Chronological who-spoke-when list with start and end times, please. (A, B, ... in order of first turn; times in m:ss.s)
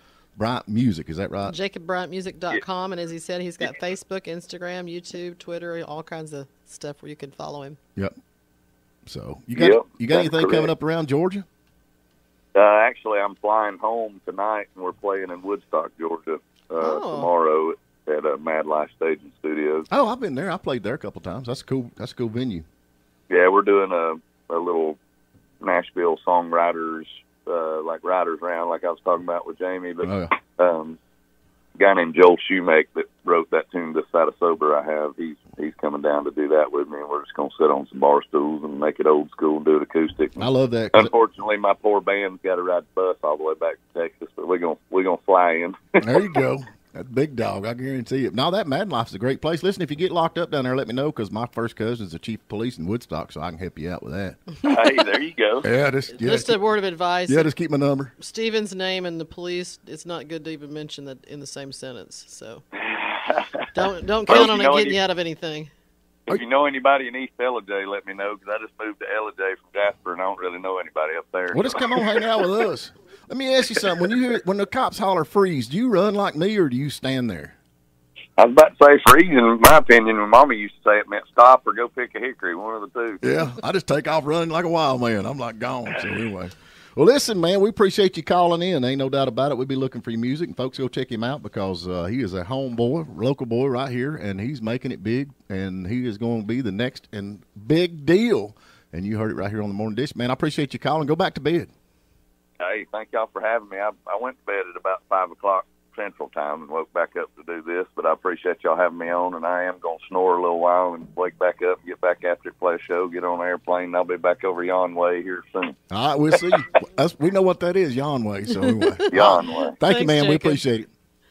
0:00.4-0:01.6 A
0:01.5-0:07.8 B
0:09.1-0:11.4 A
0:09.6-0:10.7 C
0:12.6-0:19.9 C
0:16.8-0:17.3 B
0:19.9-0:22.6 A
0:23.3-0:25.0 C
0:25.6-0:31.0 C
0:30.0-0:30.3 A
0:31.8-0:40.4 C
0:40.4-0:41.1 A
0:40.9-0:46.0 C
0:46.0-0:54.4 A
0:54.6-0:55.7 C
0:55.6-0:56.6 A
0:56.1-0:57.5 B
0:57.2-0:58.1 A
0:58.2-1:02.6 B
1:02.8-1:03.6 C
1:03.7-1:05.7 B
1:04.3-1:05.0 C
1:06.3-1:12.0 C
1:11.5-1:17.5 A
1:18.4-1:23.2 C
1:23.2-1:41.7 A
1:42.6-1:55.8 C
1:55.9-2:00.9 A
1:59.1-1:59.8 C
1:59.8-2:00.6 B